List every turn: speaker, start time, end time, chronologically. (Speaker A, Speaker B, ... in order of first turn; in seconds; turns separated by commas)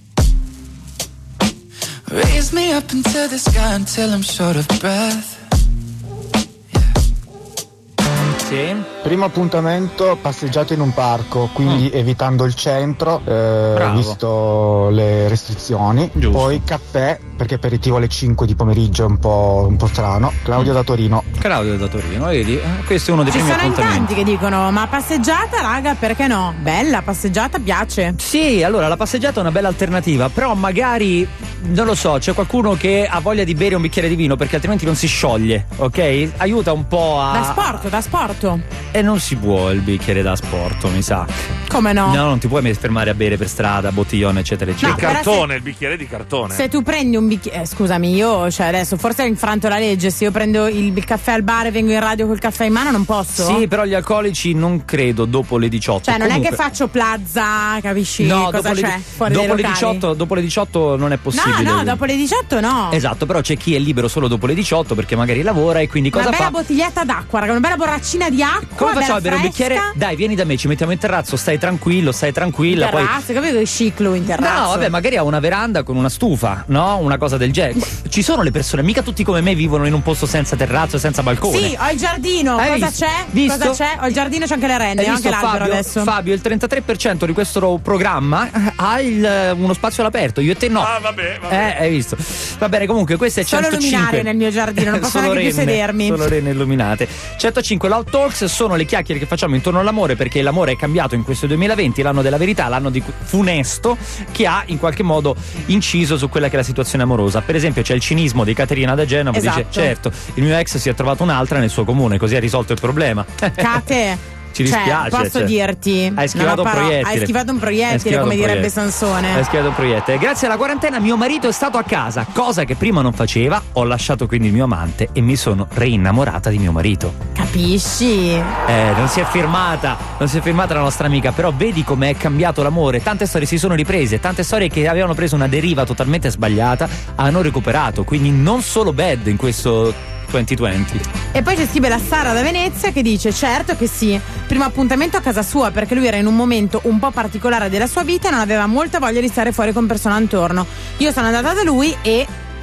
Speaker A: 2.1-5.4, Speaker B: 8.4-8.9, Speaker C: 9.0-21.3, Speaker B: 13.7-14.2, Speaker B: 16.1-16.6, Speaker B: 21.4-24.1, Speaker D: 23.3-28.1, Speaker B: 28.2-37.8, Speaker D: 37.3-38.6, Speaker B: 38.9-41.3, Speaker D: 41.7-42.2, Speaker B: 42.0-45.0, Speaker D: 44.8-45.5, Speaker E: 44.8-46.7, Speaker D: 46.5-53.6, Speaker B: 53.4-56.6, Speaker D: 56.0-60.0, Speaker B: 58.2-62.0, Speaker D: 61.3-63.0, Speaker B: 62.9-66.5, Speaker D: 66.1-69.9, Speaker B: 68.8-73.2, Speaker D: 72.7-74.9, Speaker B: 74.3-81.7, Speaker D: 81.4-86.1, Speaker B: 82.6-83.8, Speaker B: 85.0-113.8, Speaker E: 90.8-91.8, Speaker D: 93.4-96.3, Speaker D: 109.3-109.9, Speaker D: 113.6-119.4, Speaker B: 114.5-115.5, Speaker B: 116.2-117.3, Speaker B: 117.9-118.7, Speaker B: 119.3-127.2, Speaker D: 127.3-128.5, Speaker B: 128.7-141.0, Speaker D: 141.3-152.3